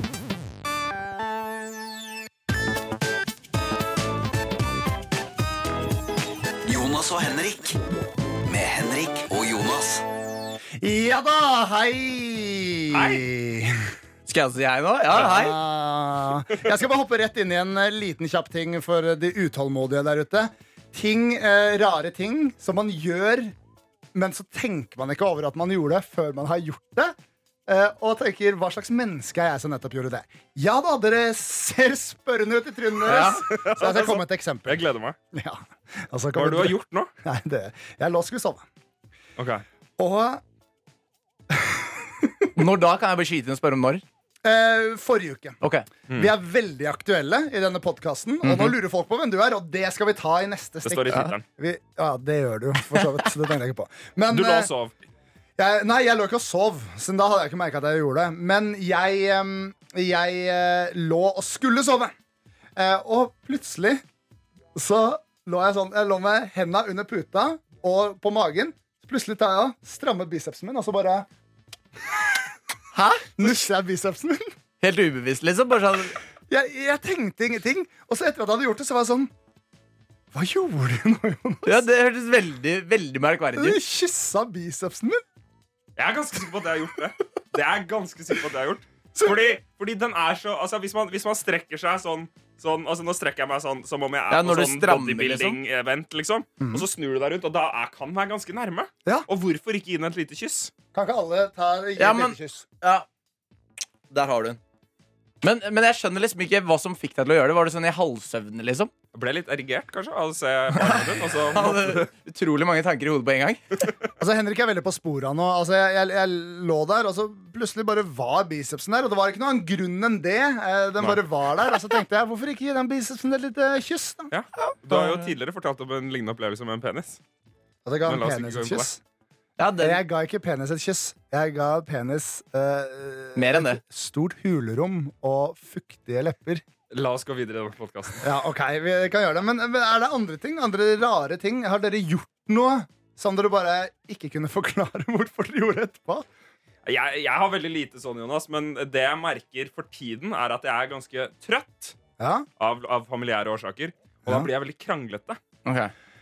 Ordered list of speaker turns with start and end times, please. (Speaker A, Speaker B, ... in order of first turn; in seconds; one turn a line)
Speaker A: 6.6-7.8
Speaker A: 8.4-10.1
Speaker B: 10.8-13.9
Speaker C: 12.9-13.2
Speaker D: 14.3-15.6
Speaker B: 15.1-23.5
Speaker B: 24.1-27.2
Speaker B: 27.7-38.6
Speaker D: 33.1-33.4
Speaker C: 33.1-35.2
Speaker C: 36.4-37.1
Speaker C: 39.4-39.6
Speaker B: 40.0-40.4
Speaker B: 41.5-42.5
Speaker D: 42.6-44.0
Speaker B: 44.4-54.7
Speaker D: 45.6-45.9
Speaker D: 48.4-48.8
Speaker C: 50.9-51.4
Speaker C: 54.3-55.0
Speaker B: 55.6-62.1
Speaker B: 62.8-64.0
Speaker B: 64.7-71.3
Speaker D: 72.9-73.5
Speaker B: 73.4-74.5
Speaker D: 74.8-76.2
Speaker B: 76.5-79.3
Speaker B: 80.3-81.9
Speaker D: 81.7-83.8
Speaker B: 83.5-85.2
Speaker C: 86.0-100.7
Speaker B: 89.2-89.5
Speaker D: 94.3-95.6
Speaker B: 96.6-96.9
Speaker B: 100.9-102.7
Speaker D: 102.0-103.1
Speaker D: 104.1-104.6
Speaker D: 105.4-108.9
Speaker C: 109.1-112.1
Speaker B: 110.7-111.5
Speaker D: 111.5-113.8
Speaker B: 114.2-124.3
Speaker C: 124.3-127.2
Speaker B: 127.8-129.0
Speaker C: 128.1-128.9
Speaker D: 129.6-130.0
Speaker B: 129.8-136.6
Speaker D: 133.4-133.8
Speaker C: 136.9-138.3
Speaker B: 138.2-146.3
Speaker C: 146.9-152.0
Speaker B: 152.2-152.5
Speaker C: 152.6-155.4
Speaker D: 155.7-155.9